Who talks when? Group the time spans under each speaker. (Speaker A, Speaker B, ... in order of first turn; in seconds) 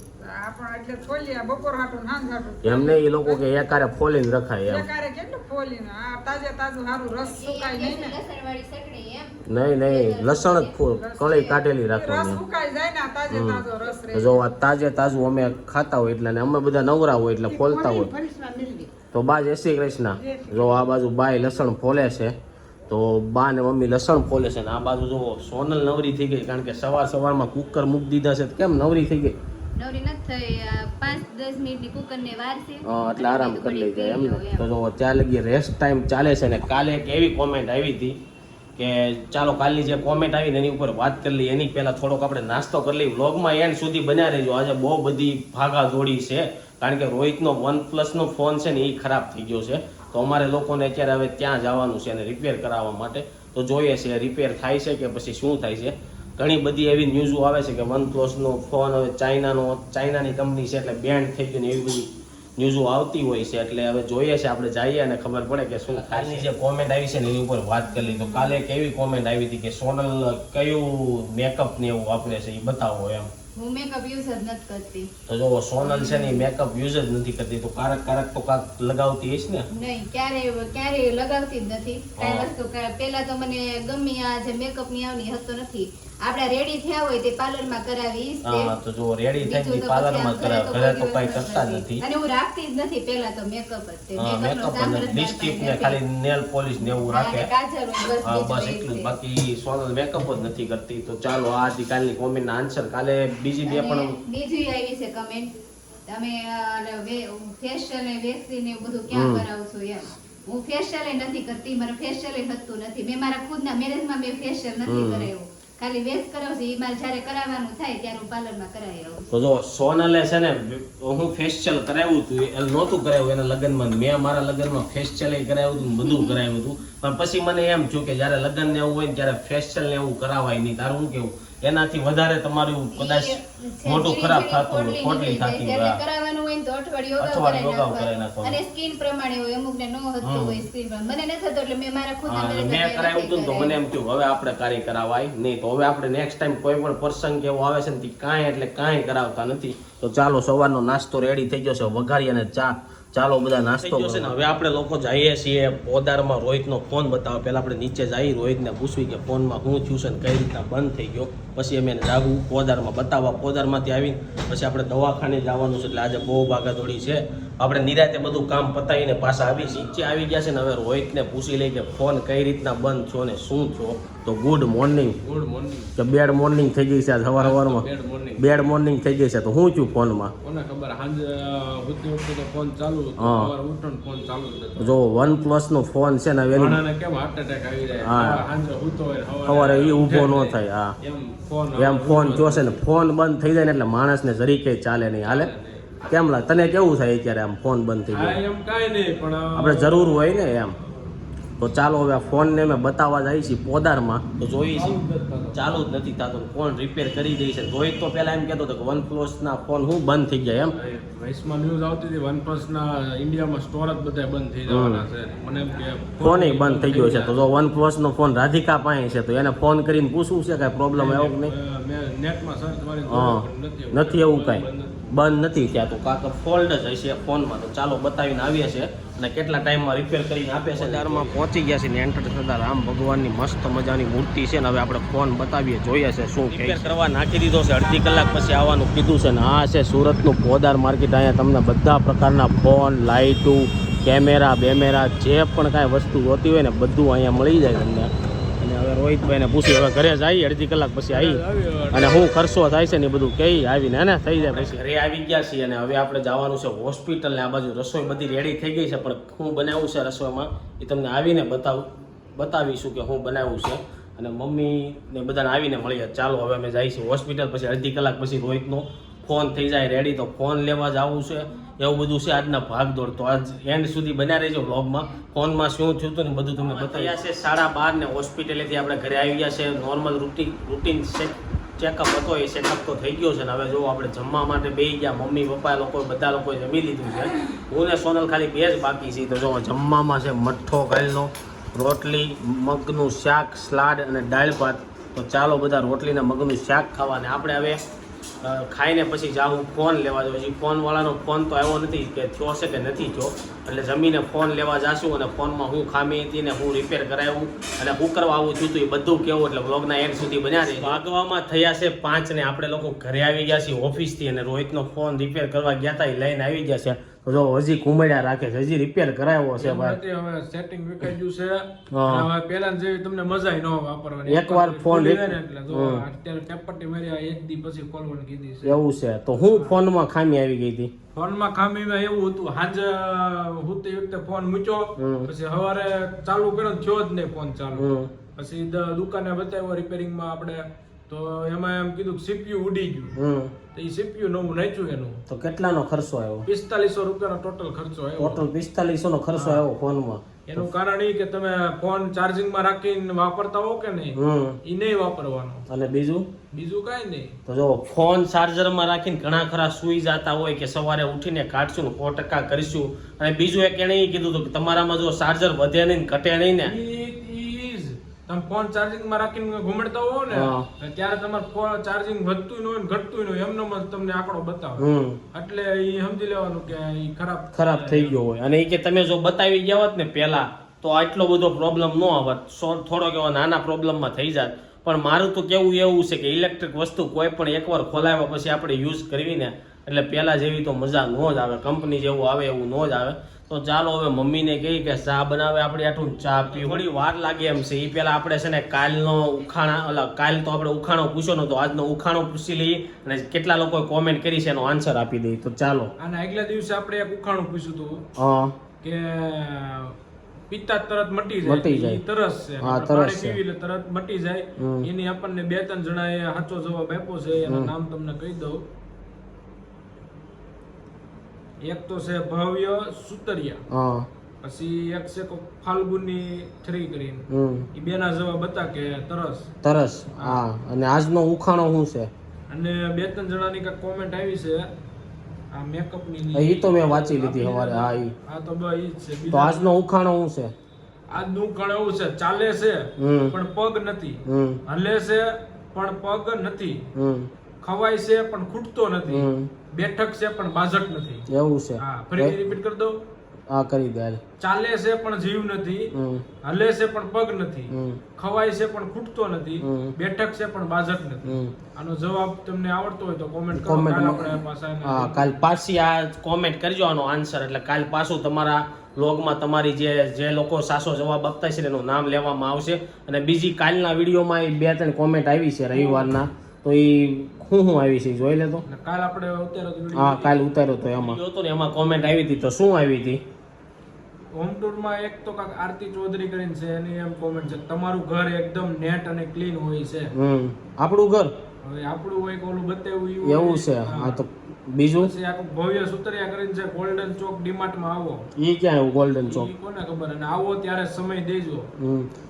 Speaker A: 0.2-3.4, 4.7-8.2, 10.9-14.4, 17.5-18.9, 20.2-20.8
Speaker B: 2.6-4.9, 9.4-12.4, 13.3-18.1, 19.1-22.3, 22.9-29.4, 32.8-38.2, 38.8-73.3, 75.3-79.7, 82.2-82.5, 88.4-92.0, 94.2-97.5, 98.2-104.2, 109.1-109.5, 114.8-115.3, 119.3-136.0, 137.2-138.6, 140.2-140.7, 142.2-175.2, 176.0-180.3, 183.2-183.5, 184.8-186.8, 188.0-188.4, 189.4-190.9, 191.8-195.5, 196.1-198.4, 199.5-200.8, 201.6-205.0, 205.5-210.7, 214.7-215.1, 216.2-221.5, 223.1-251.4, 251.9-297.8, 298.4-320.0, 321.9-322.3, 324.3-326.1, 328.6-330.9, 335.0-335.3, 337.7-338.1, 343.1-343.5, 345.3-346.5, 348.2-350.7, 354.1-354.6, 355.7-356.3, 357.5-366.8, 370.3-370.7, 374.8-375.2, 377.5-405.9, 408.2-408.6, 411.4-412.0, 412.6-413.4, 414.6-414.9, 417.5-417.7, 423.7-424.1, 427.3-427.7, 429.6-432.1, 436.3-438.1, 439.3-440.5, 443.0-443.4, 444.3-444.6, 446.9-447.3, 449.1-449.5, 451.3-452.4, 453.5-454.2, 455.9-456.2, 457.7-458.0, 459.6-459.9, 461.2-461.5, 463.5-464.3, 464.8-478.6, 479.9-483.2, 490.1-491.3, 493.2-495.1, 498.4-499.5, 501.8-502.1
Speaker C: 7.2-10.7, 29.8-34.7, 66.2-66.4, 67.9-68.6, 73.5-75.1, 75.8-76.5, 79.7-88.7, 89.4-96.0, 97.1-99.1, 103.7-105.5, 106.1-119.3, 126.0-126.4, 132.9-143.8
Speaker D: 175.2-175.9, 177.3-178.6, 180.4-185.0, 186.5-192.8, 195.2-195.9, 198.1-200.2, 204.7-205.8, 210.8-217.4, 220.9-225.0, 230.7-231.4, 236.5-236.8, 251.1-252.3, 319.6-328.8, 329.5-329.8, 331.1-343.1, 343.7-345.2, 346.4-348.4, 349.3-349.6, 350.5-355.6, 356.5-357.4, 366.6-378.2, 396.5-396.9, 406.0-408.1, 408.8-410.0, 410.5-418.6, 421.6-423.6, 424.4-429.5, 432.5-434.7, 435.5-439.8, 441.1-446.9, 447.6-451.2, 451.8-453.0, 454.4-455.9, 456.4-465.4, 475.7-476.1, 478.6-481.2, 484.3-490.1, 491.6-494.2, 495.0-498.3, 499.3-501.7